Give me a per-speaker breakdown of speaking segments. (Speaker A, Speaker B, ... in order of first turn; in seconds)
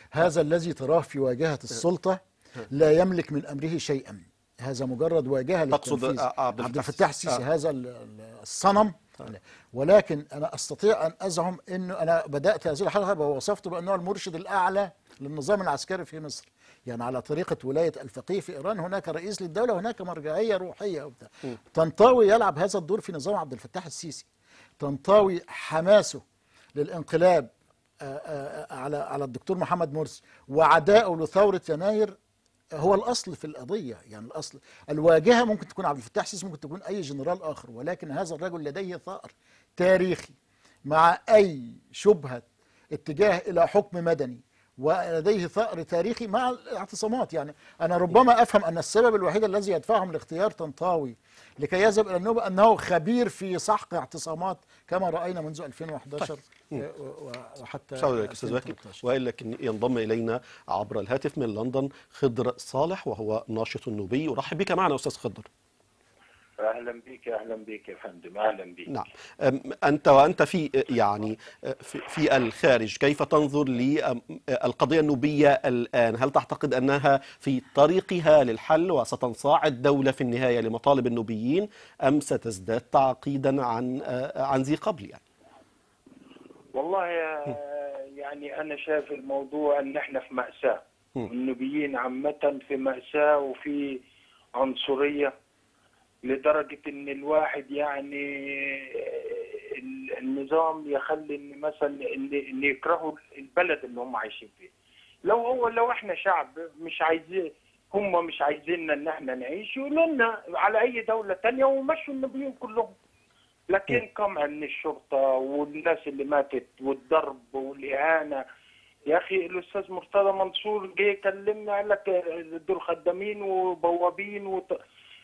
Speaker A: 0.1-24.3, 24.8-26.2, 26.8-32.1, 32.7-40.4, 40.9-59.0
Speaker B: 5.7-7.4, 58.0-65.5, 68.9-85.2
Speaker C: 66.6-68.9, 86.7-94.0, 94.6-95.3, 96.2-104.7, 105.2-112.9, 113.7-118.4, 119.1-124.8